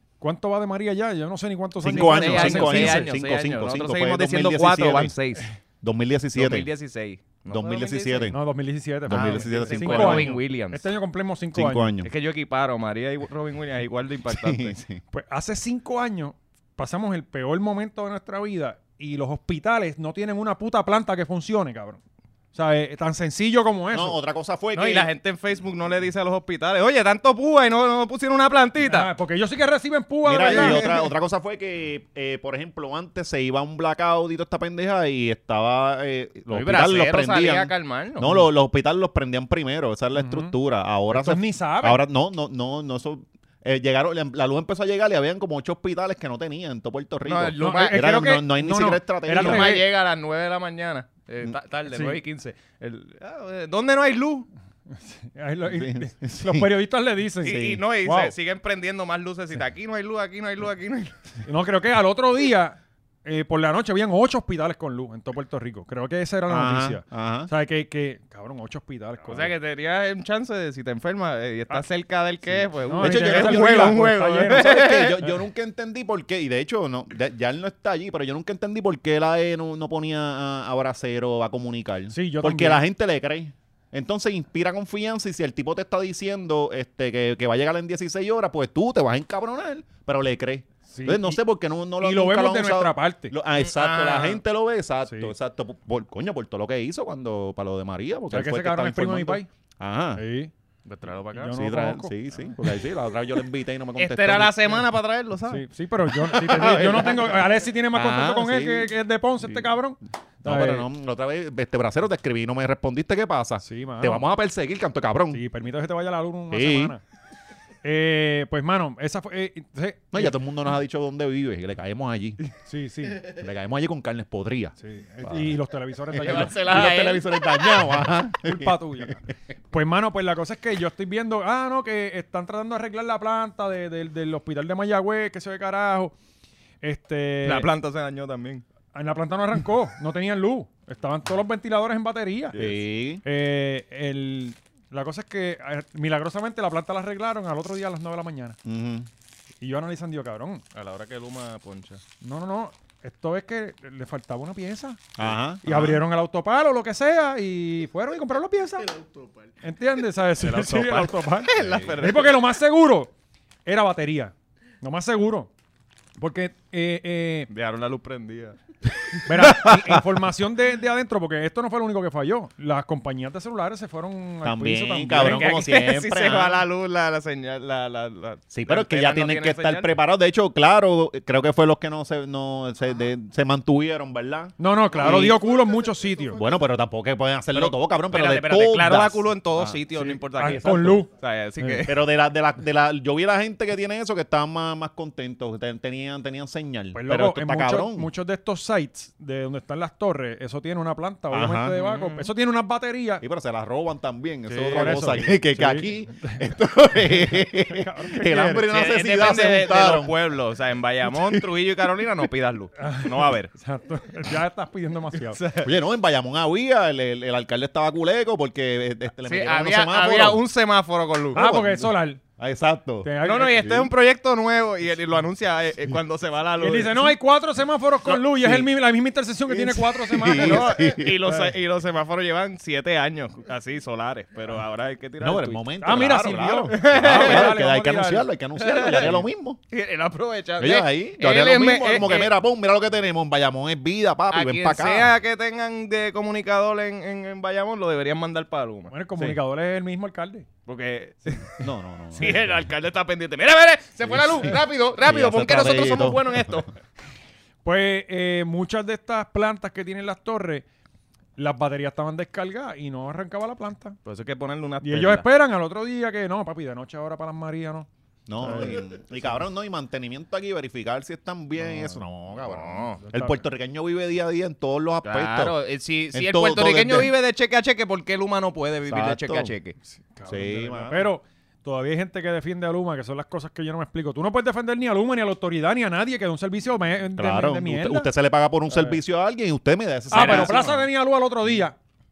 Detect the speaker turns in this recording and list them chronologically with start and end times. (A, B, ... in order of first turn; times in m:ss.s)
0:00.2-0:03.1 A
0:01.8-0:05.1 B
0:01.8-0:05.5 C
0:05.8-0:06.7 B
0:06.3-0:08.3 C
0:07.5-0:08.4 B
0:08.3-0:11.9 A
0:09.0-0:10.4 B
0:09.1-0:10.9 C
0:11.5-0:12.1 B
0:12.0-0:14.8 C
0:14.3-0:15.0 B
0:15.1-0:22.0 A
0:22.5-0:24.2 A
0:23.9-0:25.1 B
0:24.7-0:29.1 C
0:28.8-0:30.8 A
0:30.2-0:49.8 B
0:30.4-0:31.0 C
0:36.5-0:38.3 C
0:40.2-0:40.5 A
0:41.1-0:42.0 A
0:47.2-0:48.2 C
0:47.6-0:49.8 A
0:49.3-0:54.5 C
0:51.9-0:52.2 A
0:54.9-0:58.3 A
0:55.6-0:56.7 B
0:57.4-0:57.8 B
0:57.4-1:01.1 C
1:01.4-1:09.5 A
1:06.5-1:07.5 B
1:09.3-1:15.3 C
1:12.5-1:40.2 B
1:12.9-1:14.7 A
1:22.1-1:22.8 A
1:30.9-1:31.4 A
1:32.0-1:33.3 A
1:33.6-1:34.4 C
1:35.0-1:35.3 A
1:38.3-1:39.5 A
1:40.2-1:40.5 A
1:40.8-1:41.6 C
1:41.3-1:42.1 A
1:41.5-1:44.8 B
1:44.0-1:45.6 C
1:45.5-1:50.8 A
1:46.2-1:49.6 B
1:46.6-1:47.0 C
1:50.4-1:55.4 B
1:53.6-1:54.2 A
1:55.3-1:57.0 A
1:56.5-1:56.9 B
1:57.8-2:00.4 A
2:00.1-2:02.4 B
2:02.6-2:03.3 A
2:03.2-2:05.6 B
2:04.8-2:06.6 A
2:06.1-2:09.1 B
2:06.1-2:07.9 C
2:08.4-2:16.1 A
2:16.8-2:17.7 A
2:17.4-2:18.6 C
2:18.9-2:22.6 A
2:22.5-2:22.8 C
2:22.6-2:23.2 B
2:23.2-2:28.6 A
2:28.6-2:29.1 B
2:29.6-2:30.6 A
2:30.7-2:32.0 C
2:32.2-2:35.1 A
2:35.2-2:36.0 B
2:35.6-2:38.9 A
2:38.8-2:39.6 D
2:39.6-2:43.1 A
2:40.4-2:42.4 C
2:41.5-2:42.0 B
2:43.6-2:45.5 A
2:46.2-2:47.5 A
2:47.5-2:48.6 C
2:49.2-2:55.5 A
2:49.4-2:50.2 B
2:54.4-2:56.6 B
2:55.2-2:59.9 C
2:58.5-3:05.4 B
3:04.6-3:06.4 A
3:04.9-3:06.6 D
3:06.4-3:09.9 B
3:07.5-3:12.0 C
3:10.0-3:11.9 A
3:10.4-3:11.0 B
3:11.8-3:18.1 B
3:16.9-3:23.2 A
3:21.3-3:21.8 B
3:21.7-3:22.3 C
3:23.2-3:30.2 B
3:24.5-3:25.0 C
3:24.7-3:26.4 A
3:27.0-3:28.7 A
3:28.6-3:33.5 C
3:31.1-3:31.4 B
3:32.8-3:35.4 A
3:35.3-3:35.7 C
3:35.6-3:40.4 B
3:39.2-3:41.5 C
3:41.3-3:43.9 B
3:41.3-3:42.2 A
3:43.0-3:43.6 A
3:43.2-3:47.1 C
3:46.6-3:51.5 A
3:48.0-3:48.7 B
3:49.5-3:51.2 B
3:50.3-3:55.6 C
3:55.2-3:59.6 B
3:55.8-3:58.3 A
3:56.7-3:57.5 C
3:58.6-4:02.3 C
4:00.6-4:05.1 B
4:04.3-4:08.9 C
4:08.9-4:10.5 A
4:10.7-4:11.6 C
4:11.6-4:12.6 B
4:12.2-4:16.7 C
4:14.0-4:16.5 B
4:17.6-4:20.6 A
4:21.4-4:24.0 A
4:24.0-4:25.2 C
4:24.8-4:29.3 A
4:28.3-4:35.6 B
4:31.6-4:33.0 C
4:33.0-4:33.4 A
4:35.0-4:39.8 C
4:36.1-4:37.1 B
4:38.9-4:39.5 B
4:39.8-4:48.1 A
4:40.3-4:41.1 B
4:47.2-4:50.8 B
4:48.7-4:49.0 A
4:50.1-4:50.6 C
4:50.1-4:51.8 A